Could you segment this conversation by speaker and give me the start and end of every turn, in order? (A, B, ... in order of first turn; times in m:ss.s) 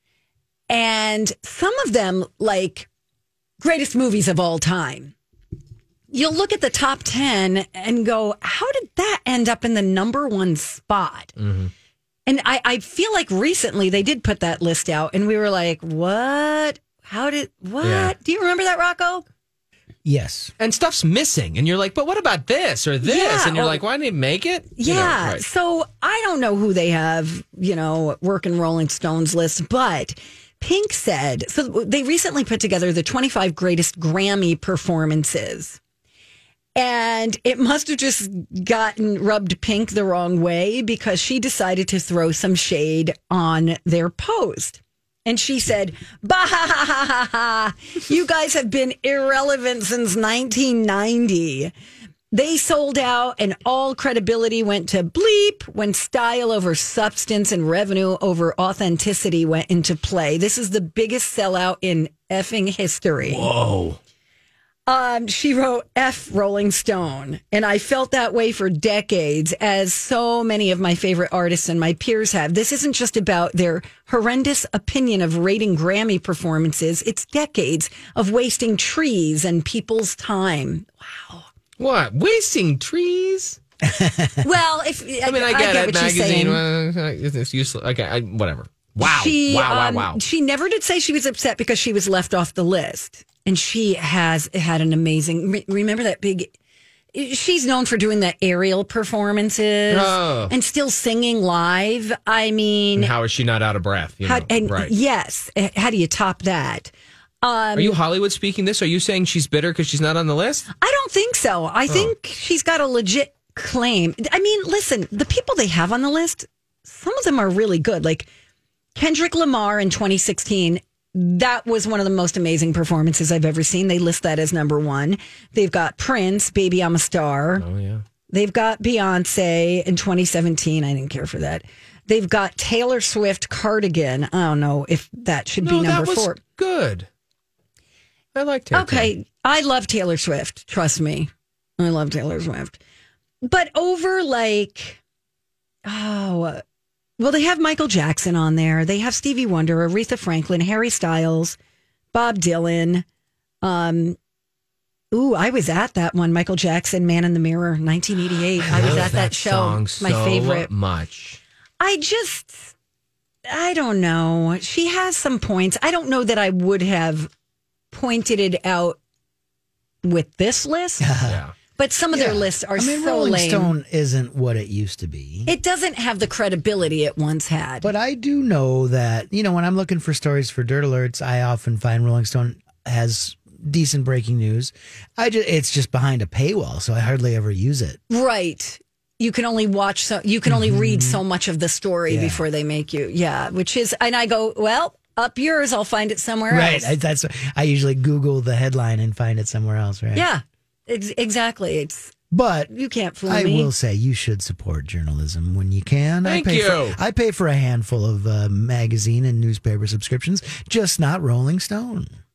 0:00.7-0:02.9 A
0:03.6-0:05.1 A
0:06.1-0:11.3 A
0:11.4-0:11.7 B
0:12.3-0:19.2 A
0:17.8-0:18.1 B
0:20.0-0:20.5 C
0:20.6-0:25.4 B
0:23.0-0:23.8 A
0:24.8-0:35.8 A
0:36.8-0:51.7 A
0:52.3-1:03.5 A
1:03.2-1:04.0 B
1:04.9-1:21.5 A
1:21.8-1:23.6 B
1:23.8-1:24.3 C
1:24.4-1:26.6 A
1:25.2-1:30.2 B
1:29.0-1:36.5 A
1:37.1-1:43.1 A
1:39.9-1:40.5 B
1:43.0-1:44.9 B
1:44.2-1:46.9 A
1:47.4-1:48.0 A
1:47.8-1:50.7 B
1:50.8-1:58.3 A
1:58.9-2:07.6 A
2:07.6-2:08.0 B
2:08.3-2:16.4 A
2:15.6-2:17.1 B
2:18.3-2:19.1 B
2:18.7-2:22.8 A
2:23.4-2:25.0 A
2:25.8-2:26.6 A
2:27.2-2:31.6 A
2:32.1-2:33.0 A
2:33.6-2:34.2 A
2:35.1-2:40.7 A
2:38.6-2:41.4 B
2:41.8-2:42.7 A
2:43.4-2:47.3 A
2:47.9-2:49.0 A
2:50.0-2:51.1 A
2:51.0-2:51.4 C
2:51.2-2:51.5 B
2:51.8-2:53.8 A
2:52.1-2:55.5 C
2:55.5-2:57.9 A
2:57.8-3:08.0 C
3:08.1-3:16.9 A
3:10.4-3:11.2 C
3:12.1-3:12.4 C
3:16.5-3:20.2 C
3:20.1-3:22.1 A
3:22.3-3:22.7 C
3:22.7-3:23.7 A
3:23.2-3:32.1 C
3:26.2-3:27.0 B